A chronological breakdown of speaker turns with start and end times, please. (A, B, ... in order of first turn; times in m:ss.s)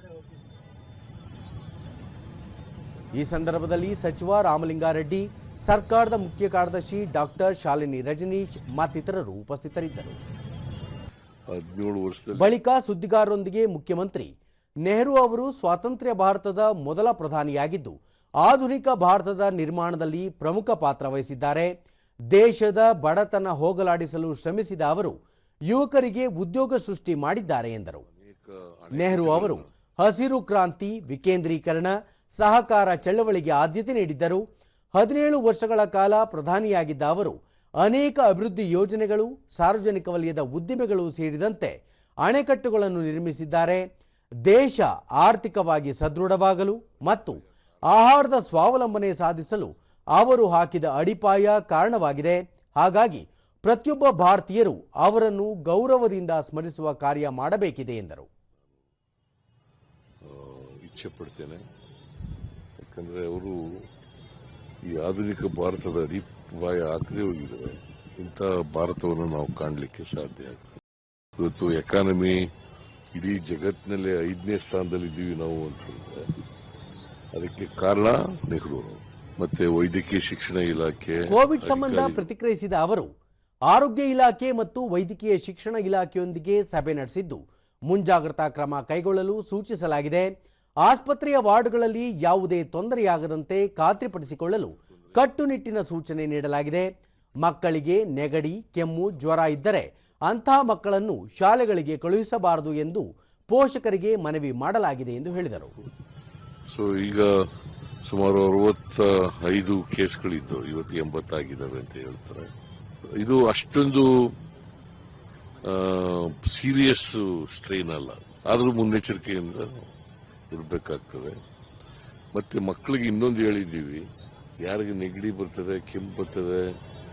0:03.1-0:10.2 A
0:11.5-0:12.5 B
0:12.4-0:14.3 A
0:14.8-0:21.7 A
0:22.3-0:25.2 A
0:25.7-0:28.0 A
0:28.1-0:29.7 B
0:28.9-0:43.8 A
0:44.5-0:58.3 A
1:00.2-1:01.6 B
1:02.8-1:03.9 B
1:04.9-1:10.8 B
1:11.4-1:12.5 B
1:13.2-1:16.4 B
1:17.3-1:22.3 B
1:21.3-1:23.1 A
1:23.7-1:30.3 A
1:30.8-1:36.9 A
1:34.8-1:35.2 B
1:37.4-1:45.7 A
1:46.7-1:47.5 B
1:48.0-1:52.5 B
1:53.1-1:54.4 B
1:55.6-1:59.9 B
2:00.5-2:01.4 B
2:02.3-2:04.1 B
2:04.6-2:06.8 B